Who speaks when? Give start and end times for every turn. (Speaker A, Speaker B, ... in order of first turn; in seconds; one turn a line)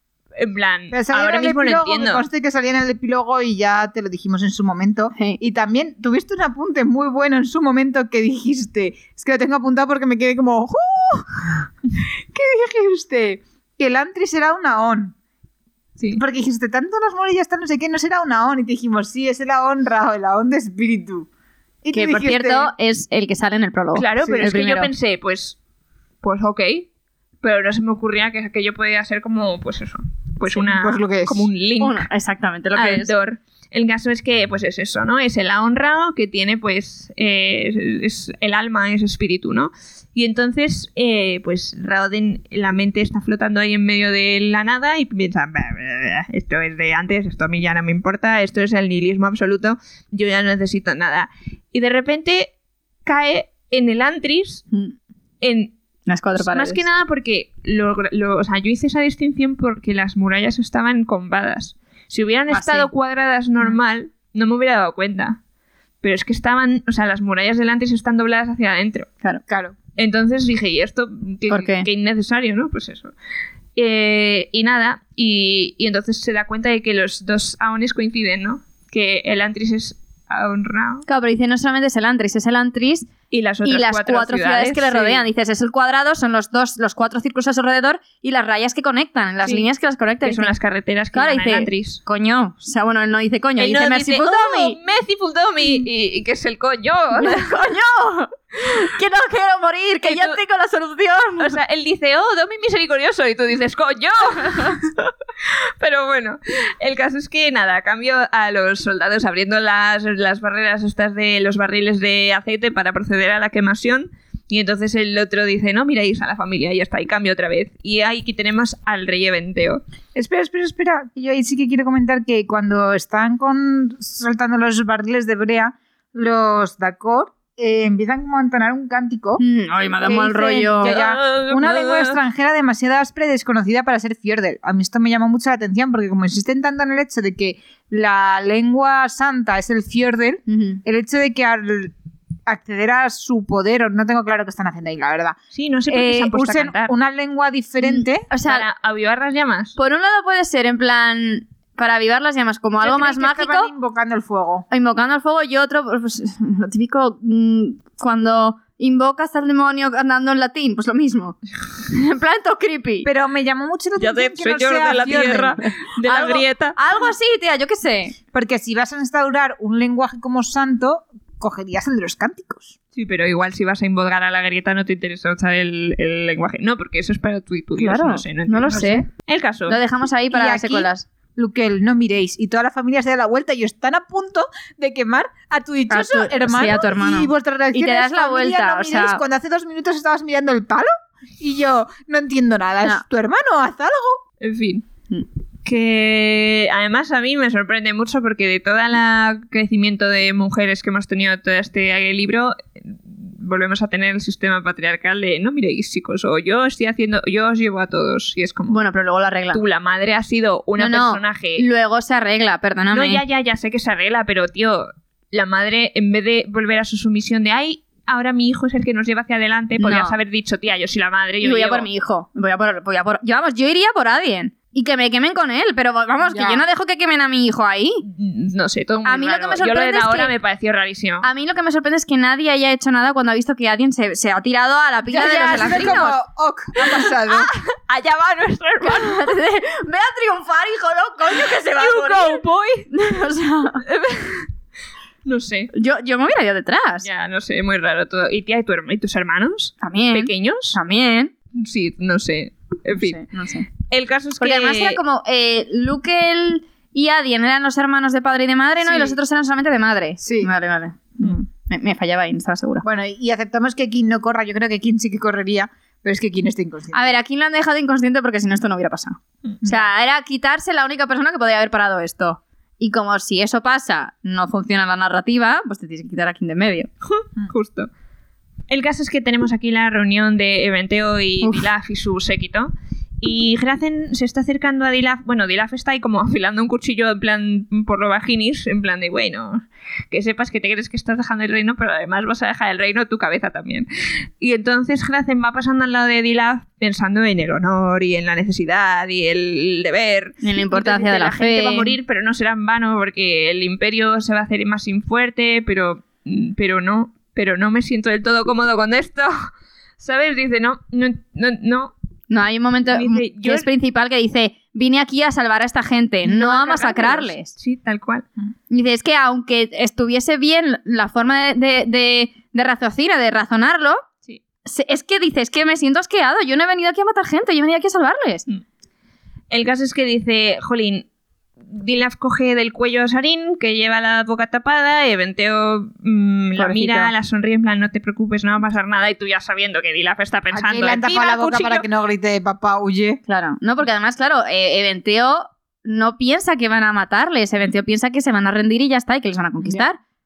Speaker A: 0.4-2.2
Speaker B: 0.9-15.2
Speaker B: 16.1-21.3
Speaker B: 21.8-22.7
Speaker C: 21.9-24.9
Speaker A: 23.9-25.6
Speaker A: 26.2-26.9
Speaker A: 27.4-32.1
Speaker B: 30.5-31.5
Speaker C: 31.8-33.1
Speaker A: 32.8-52.5
Speaker A: 53.0-54.6
Speaker A: 55.4-55.7
Speaker C: 56.1-56.8
Speaker A: 56.4-65.4
Speaker C: 62.5-62.9
Speaker A: 66.0-69.1
Speaker B: 69.5-69.8
Speaker A: 70.0-73.1
Speaker C: 71.5-71.9
Speaker A: 73.8-81.1
Speaker C: 81.1-83.1
Speaker A: 83.3-85.2
Speaker C: 83.6-90.5
Speaker A: 89.4-89.7
Speaker A: 90.2-92.0
Speaker C: 91.1-94.8
Speaker A: 93.6-97.6
Speaker C: 97.2-101.5
Speaker A: 100.0-100.4
Speaker A: 101.4-119.8
Speaker B: 120.2-129.4
Speaker C: 129.4-130.9
Speaker B: 130.0-141.9
Speaker A: 130.8-132.2
Speaker C: 140.5-140.8
Speaker B: 142.5-145.4
Speaker A: 145.5-146.9
Speaker B: 145.9-148.3
Speaker C: 147.8-148.7
Speaker A: 148.4-149.8
Speaker C: 149.8-153.7
Speaker B: 152.8-154.7
Speaker C: 154.7-163.1
Speaker B: 163.0-165.6
Speaker A: 164.0-166.8
Speaker C: 166.0-168.2
Speaker B: 168.3-172.8
Speaker A: 172.9-179.8
Speaker C: 177.8-179.1
Speaker B: 178.7-179.1
Speaker C: 179.7-181.1
Speaker B: 180.3-194.2
Speaker C: 185.9-189.2
Speaker A: 194.4-194.8
Speaker A: 195.7-208.8
Speaker C: 208.7-209.6
Speaker A: 209.5-211.6
Speaker C: 210.8-213.2
Speaker A: 212.9-221.9
Speaker C: 219.8-220.2
Speaker C: 221.4-228.0
Speaker B: 226.2-226.7
Speaker A: 228.0-231.3
Speaker C: 229.1-230.3
Speaker C: 231.2-236.2
Speaker B: 235.1-237.5
Speaker A: 237.2-239.4
Speaker C: 238.8-243.8
Speaker A: 241.7-242.9
Speaker A: 243.8-244.5
Speaker A: 245.2-245.7
Speaker C: 245.7-247.1
Speaker A: 247.0-250.8
Speaker C: 249.8-251.3
Speaker A: 251.5-253.3
Speaker C: 252.9-253.7
Speaker A: 253.8-255.0
Speaker C: 254.4-262.8
Speaker A: 258.8-259.1
Speaker B: 260.2-260.5
Speaker B: 262.8-267.1
Speaker C: 266.9-276.9
Speaker B: 269.6-269.9
Speaker A: 277.1-277.9
Speaker A: 278.7-282.7
Speaker A: 283.2-293.9
Speaker A: 294.4-309.5
Speaker C: 300.4-302.0
Speaker A: 310.0-311.9
Speaker C: 312.3-317.5
Speaker A: 312.9-313.7
Speaker A: 316.2-318.3
Speaker C: 318.7-324.0
Speaker C: 324.6-328.5
Speaker A: 329.5-331.1
Speaker A: 331.6-341.9
Speaker C: 336.6-337.1
Speaker B: 340.5-343.2
Speaker C: 343.3-350.0